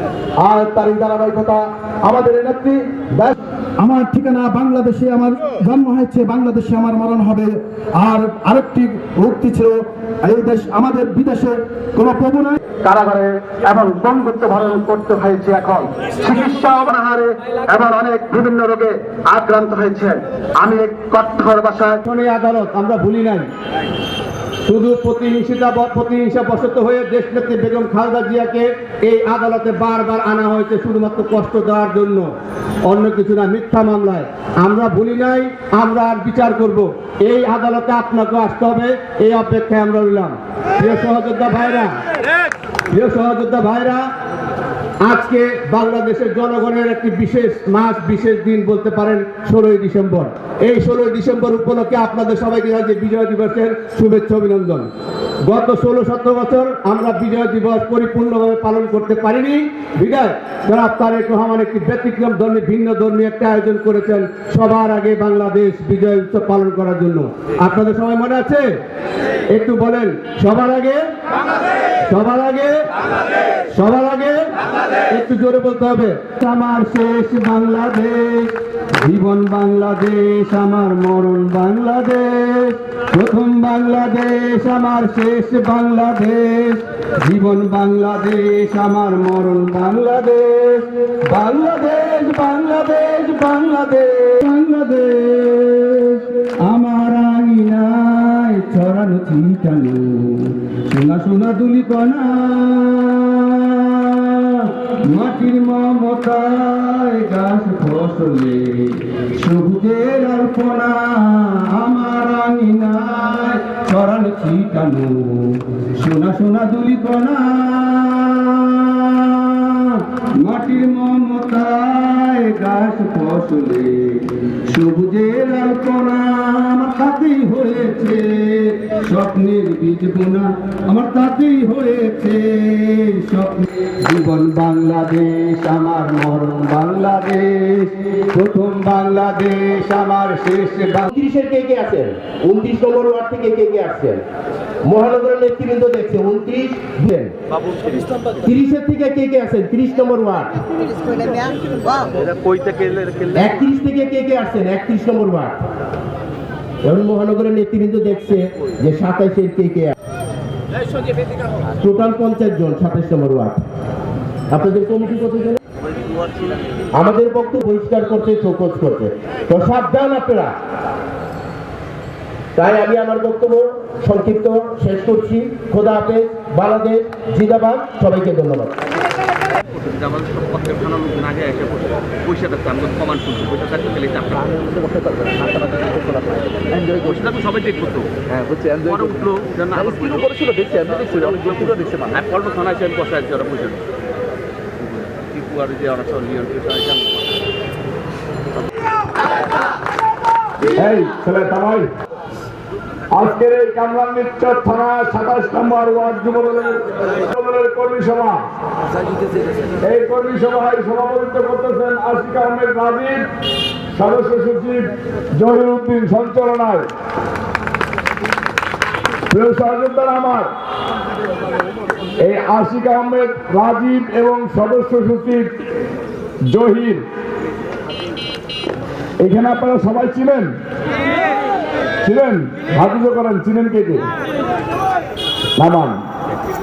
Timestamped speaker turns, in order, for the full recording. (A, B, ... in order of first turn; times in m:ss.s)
0:00.4-0:22.0 A
0:22.0-0:23.5 B
0:24.6-0:32.3 B
0:32.8-0:41.9 B
0:42.9-0:44.1 B
0:45.0-0:54.9 B
0:55.4-1:08.7 B
1:09.5-1:11.0 B
1:12.0-1:12.9 B
1:13.7-1:14.4 B
1:15.1-1:16.2 B
1:16.4-2:21.1 A
2:21.1-2:24.2 B
2:24.8-2:27.3 B
2:27.7-2:28.1 C
2:28.4-2:30.5 B
2:32.2-2:33.4 C
2:33.3-2:35.6 B
2:36.8-2:40.0 B
2:41.8-2:43.6 B
2:44.5-2:45.6 B
2:46.9-2:50.6 B
2:52.6-2:58.8 B
2:59.7-3:08.1 C
3:05.3-3:06.0 D
3:06.7-3:12.0 D
3:08.8-3:13.8 C
3:14.9-3:17.3 C
3:20.8-3:21.9 E
3:23.1-3:28.4 E
3:29.8-3:33.3 E
3:33.9-3:36.9 E
3:39.3-3:40.5 E
3:42.2-3:45.5 E
3:46.5-3:47.0 E
3:49.2-3:50.5 E
3:52.0-3:54.1 E
3:55.6-3:56.0 E